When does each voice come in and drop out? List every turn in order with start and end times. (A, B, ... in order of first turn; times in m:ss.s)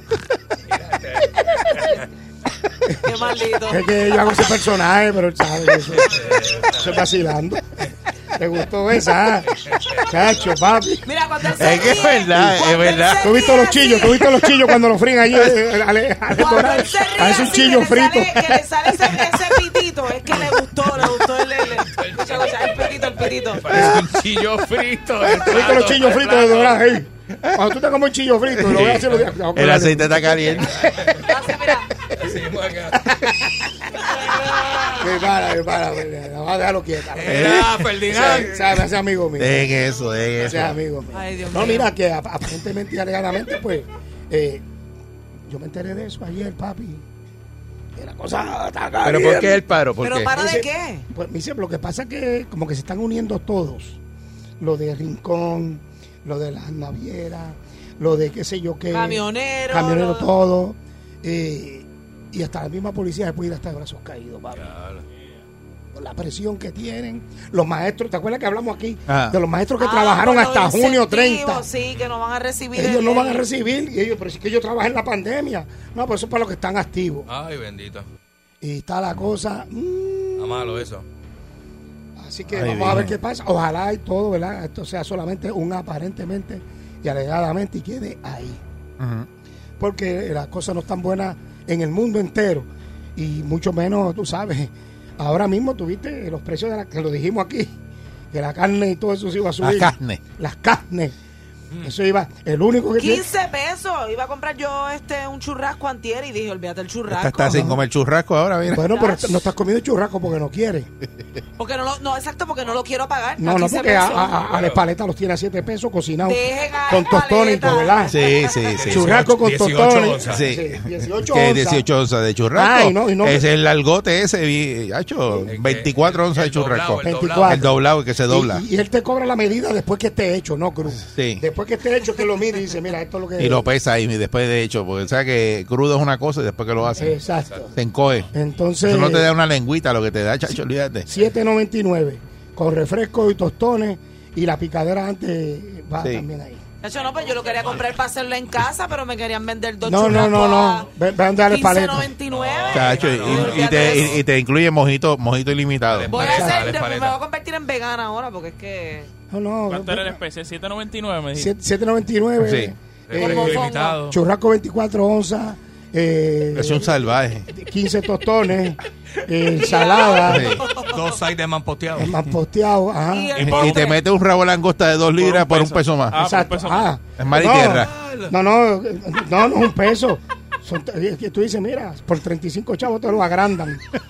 0:00.6-0:02.1 A
0:03.0-0:04.2 B
0:03.7-0:07.8 C
0:06.0-0:07.0 A
0:08.4-0:11.0 C
0:09.6-0:10.3 A
0:11.0-0:14.3 B
0:11.6-0:13.5 D
0:11.6-0:12.6 C
0:13.2-0:18.6 C
0:16.3-0:23.8 B
0:21.8-0:27.0 A
0:23.7-0:24.1 C
0:25.3-0:31.0 C
0:28.6-0:31.1 D
0:28.7-0:29.0 A
0:30.6-0:31.3 A
0:31.2-0:31.9 B
0:32.1-0:33.2 A
0:32.9-0:34.1 C
0:34.8-0:39.8 C
0:37.2-0:38.8 A
0:37.2-0:37.9 D
0:39.4-0:40.8 D
0:40.4-0:44.6 C
0:41.1-0:41.9 B
0:45.5-0:47.0 C
0:48.0-0:49.7 C
0:49.0-0:50.3 D
0:50.0-0:51.1 B
0:50.3-0:54.0 C
0:54.6-1:04.7 C
0:58.9-1:00.3 B
1:04.5-1:05.0 A
1:05.9-1:11.7 C
1:09.1-1:09.4 D
1:09.8-1:13.4 B
1:12.8-1:17.3 C
1:17.3-1:18.1 A
1:18.6-1:20.8 C
1:20.4-1:21.1 A
1:22.2-1:28.6 C
1:22.5-1:23.2 D
1:29.0-1:29.3 D
1:29.8-1:37.8 C
1:38.3-1:41.2 C
1:39.6-1:40.2 D
1:41.8-1:43.3 C
1:43.0-1:47.6 B
1:47.1-1:48.9 D
1:47.5-1:47.8 C
1:48.7-1:50.9 C
1:48.9-1:49.4 B
1:51.6-1:54.3 B
1:53.4-1:58.4 C
1:54.3-1:54.8 A
1:56.2-1:58.6 B
1:58.1-1:59.3 D
1:58.6-2:00.5 A
1:58.9-2:01.8 C
2:00.3-2:08.6 D
2:02.5-2:03.4 C
2:05.5-2:07.7 A
2:07.0-2:13.7 C
2:11.1-2:11.4 D
2:13.4-2:17.2 D
2:17.0-2:17.7 C
2:17.5-2:17.7 A
2:17.8-2:21.1 D
2:18.3-2:19.3 C
2:21.1-2:26.6 C
2:26.0-2:26.3 D
2:26.8-2:30.9 B
2:29.8-2:32.1 C
2:31.5-2:34.2 B
2:32.3-2:34.2 A
2:32.7-2:36.3 D
2:35.9-2:37.2 A
2:36.1-2:39.1 B
2:36.2-2:36.6 C
2:39.3-2:40.2 C
2:39.7-2:41.5 E
2:41.4-2:50.5 C
2:42.4-2:42.7 D
2:43.1-2:44.2 A
2:43.2-2:44.0 B
2:46.5-2:47.5 D
2:49.6-2:50.6 B
2:50.3-2:50.6 D
2:50.8-2:52.2 A
2:52.0-2:53.7 C
2:53.1-2:54.0 B
2:53.4-2:56.2 D
2:55.2-2:56.9 E
2:56.1-3:03.8 C
2:57.2-2:57.9 D
2:57.9-2:58.3 A